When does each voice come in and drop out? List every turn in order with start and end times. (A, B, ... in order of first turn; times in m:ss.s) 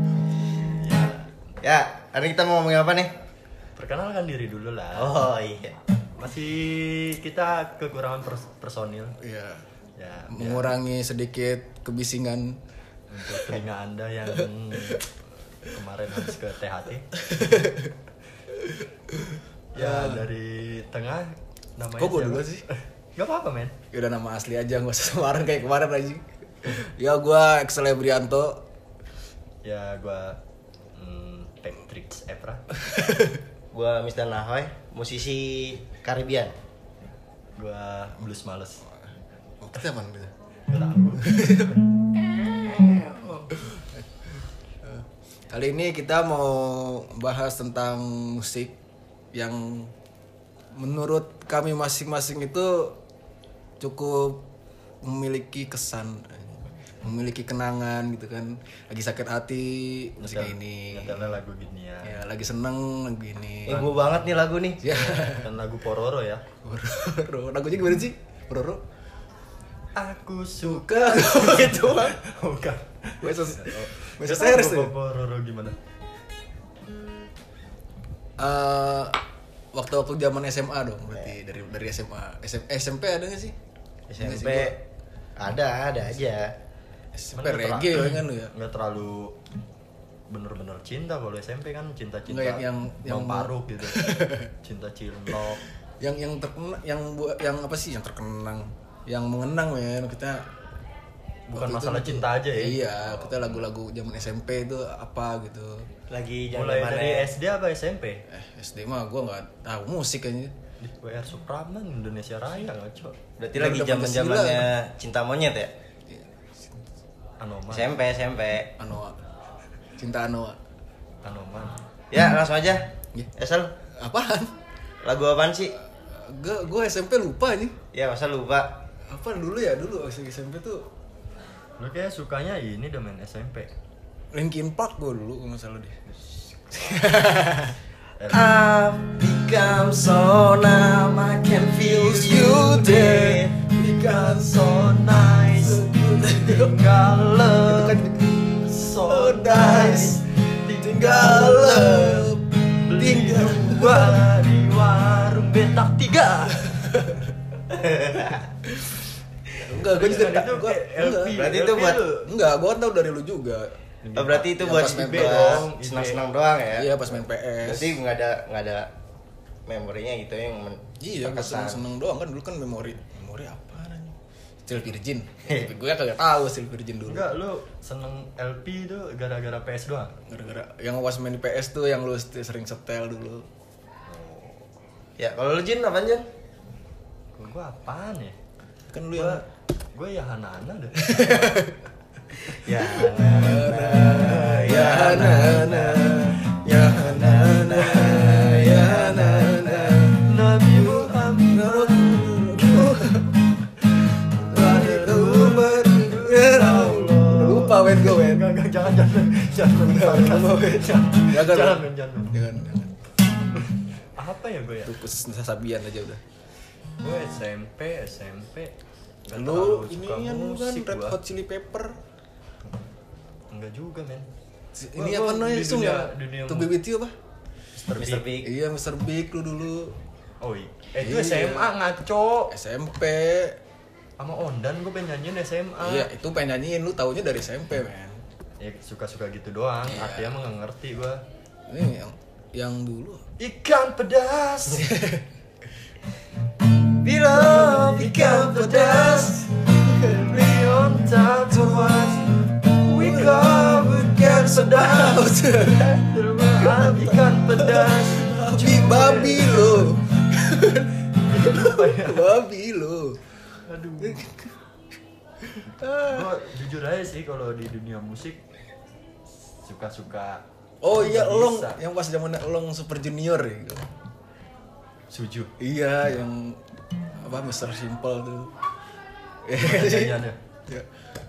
0:00.8-0:01.2 A
0:01.6-0:03.1 B
0:03.8-0:05.2 A
0:05.0-0:05.8 B
0:06.2-0:09.1 A
0:09.2-0:09.6 C
0:10.0-0:10.7 A
0:10.3-0:12.6 C
0:13.1-0:15.0 A
0:13.2-0:13.6 C
0:14.3-0:15.0 C
0:15.6-0:17.2 A
0:17.2-0:18.0 C
0:18.5-0:20.3 C
0:19.7-0:23.7 A
0:22.0-0:22.6 C
0:23.9-0:28.6 C
0:29.6-0:30.4 A
0:31.0-0:32.6 A
0:32.8-0:33.4 C
0:33.7-0:36.5 B
0:37.6-0:38.8 A
0:39.6-0:40.3 C
0:40.7-0:41.5 A
0:41.2-0:48.8 C
0:49.3-0:49.9 C
0:50.7-0:53.0 C
0:53.8-0:54.5 C
0:55.0-1:01.3 C
1:00.2-1:02.2 A
1:02.0-1:03.8 C
1:03.7-1:05.1 B
1:03.7-1:04.1 A
1:04.8-1:05.5 C
1:04.9-1:06.4 A
1:06.6-1:08.8 C
1:10.0-1:15.8 A
1:10.6-1:12.2 C
1:13.2-1:14.9 C
1:18.4-1:19.2 C
1:19.7-1:23.6 C
1:24.1-1:24.8 B
1:24.2-1:24.7 C
1:25.4-1:26.5 B
1:27.1-1:28.5 C
1:27.3-1:29.4 A
1:30.3-1:35.6 A
1:32.3-1:34.5 C
1:36.0-1:40.5 C
1:41.5-1:45.9 C
1:41.5-1:43.6 A
1:46.1-1:47.3 B
1:46.5-1:48.2 A
1:48.3-1:50.5 C
1:50.8-1:53.2 A
1:53.4-1:55.7 B
1:53.5-1:54.7 C
1:56.1-1:56.9 C
1:57.4-1:58.0 A
1:57.7-1:58.7 B
1:58.8-1:59.2 C
2:00.0-2:00.6 C
2:01.2-2:01.8 A
2:02.1-2:03.7 B
2:03.9-2:04.5 C
2:05.0-2:05.8 B
2:06.1-2:07.8 C
2:07.9-2:08.7 B
2:09.1-2:10.9 C
2:11.8-2:13.7 A
2:14.3-2:16.0 C
2:16.1-2:17.0 A
2:16.7-2:17.8 C
2:18.2-2:18.5 A
2:18.3-2:23.5 B
2:21.8-2:24.6 C
2:23.6-2:28.0 A
2:25.6-2:26.8 C
2:27.6-2:30.2 C
2:28.6-2:32.3 A
2:30.8-2:34.3 C
2:32.8-2:36.9 A
2:36.6-2:37.3 C
2:37.7-2:38.4 B
2:38.6-2:39.0 C
2:39.6-2:41.5 C
2:39.8-2:42.3 A
2:41.3-2:42.0 B
2:42.2-2:43.8 C
2:44.0-2:46.3 A
2:44.2-2:47.0 B
2:44.6-2:45.6 C
2:46.7-2:47.9 C
2:47.6-2:48.9 B
2:49.7-2:51.8 B
2:51.0-2:57.3 C
2:55.4-2:55.7 A
2:57.0-3:00.1 A
3:00.2-3:03.5 C
3:04.1-3:04.6 A
3:05.2-3:06.2 B
3:07.3-3:08.4 A
3:08.9-3:09.4 C
3:09.1-3:11.7 A
3:11.0-3:11.8 C
3:12.4-3:20.0 B
3:12.8-3:15.8 A
3:13.0-3:23.4 C
3:20.1-3:23.1 A
3:24.4-3:28.5 C
3:24.5-3:32.3 A
3:29.8-3:32.9 C
3:33.6-3:34.9 A
3:34.8-3:36.2 C
3:37.0-3:38.7 A
3:39.3-3:41.2 A
3:39.3-3:42.0 C
3:43.5-3:44.3 A
3:44.7-3:47.1 C
3:45.0-3:46.7 A
3:47.7-3:48.3 A
3:48.0-3:48.5 B
3:48.4-3:50.0 C
3:50.4-3:52.5 A
3:51.0-3:51.7 C
3:52.5-3:53.6 C
3:54.2-3:56.1 A
3:55.8-3:58.2 C
3:58.6-4:01.2 A
3:59.8-4:00.4 C
4:01.7-4:03.2 C
4:03.4-4:04.9 A
4:04.8-4:05.2 C
4:07.0-4:09.4 B
4:07.3-4:19.9 A
4:08.4-4:10.4 C
4:11.5-4:12.3 C
4:12.9-4:23.2 C
4:21.2-4:22.3 A
4:23.6-4:24.2 A
4:24.0-4:24.5 C
4:25.4-4:26.3 C
4:26.1-4:28.4 A
4:29.6-4:31.8 A
4:30.8-4:33.9 C
4:35.1-4:35.5 A
4:35.6-4:36.6 C
4:37.2-4:38.5 C
4:39.4-4:40.9 C
4:39.6-4:40.4 A